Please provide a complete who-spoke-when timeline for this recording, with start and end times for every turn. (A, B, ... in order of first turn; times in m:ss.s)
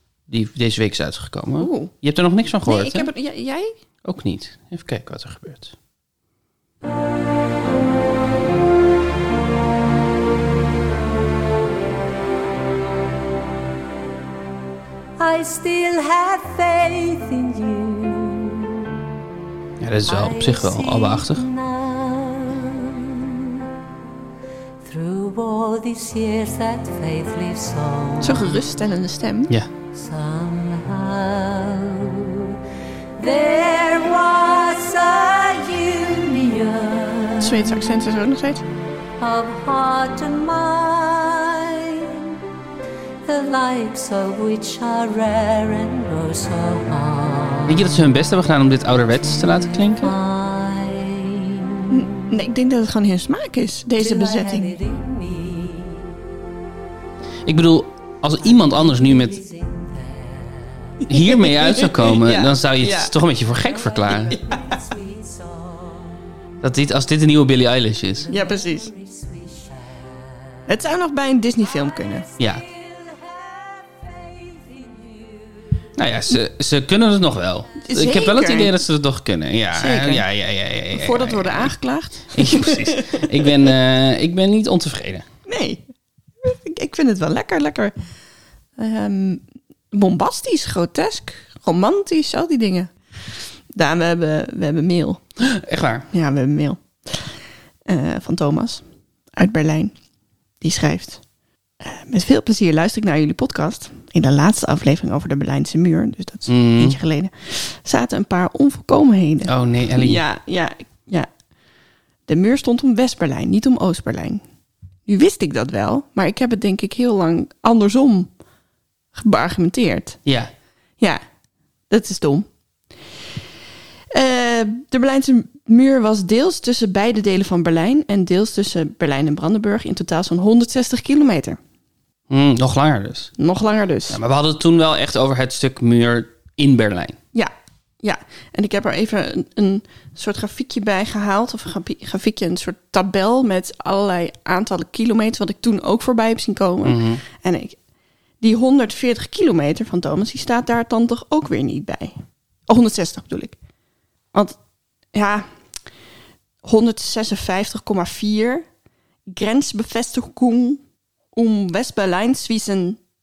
0:00.3-0:03.1 A
0:01.6-0:01.9 B
0:02.6-0:03.7 B
0:04.0-0:05.7 A
0:15.2-0:19.0 C
0:19.8-0:21.4 A
0:20.0-0:23.7 C
0:24.8-0:28.6 C
0:28.2-0:29.5 B
0:29.9-0:32.6 C
0:33.2-0:37.9 C
0:37.4-0:38.6 B
0:39.2-0:42.4 C
0:43.2-0:47.8 C
0:47.6-0:50.1 A
0:49.3-0:52.1 C
0:51.9-0:54.7 B
0:54.0-0:56.2 C
0:57.4-0:59.4 A
0:58.4-1:01.0 C
1:01.0-1:04.4 A
1:01.2-1:03.1 B
1:03.7-1:06.2 C
1:04.3-1:04.8 B
1:06.6-1:08.3 A
1:08.2-1:10.5 C
1:08.3-1:08.9 B
1:10.7-1:12.3 B
1:12.4-1:15.8 C
1:12.4-1:12.6 A
1:16.0-1:25.2 A
1:17.8-1:18.7 B
1:19.7-1:20.2 B
1:20.9-1:23.7 B
1:25.5-1:25.8 B
1:26.4-1:27.9 B
1:28.8-1:32.9 B
1:33.7-1:35.2 B
1:35.4-1:36.1 A
1:36.1-1:38.8 B
1:39.3-1:39.9 B
1:40.6-1:41.2 B
1:41.8-1:51.3 B
1:46.5-1:47.0 A
1:49.4-1:50.2 A
1:52.3-1:54.4 B
1:55.0-1:58.3 B
1:59.1-2:00.2 B
2:00.2-2:00.5 A
2:01.9-2:02.5 B
2:04.1-2:11.6 B
2:12.3-2:13.3 A
2:13.4-2:14.2 B
2:14.1-2:17.2 A
2:17.3-2:27.8 B
2:26.8-2:27.2 A
2:28.4-2:33.6 B
2:35.1-2:35.5 B
2:36.6-2:38.6 B
2:39.3-2:40.8 B
2:41.3-2:43.0 B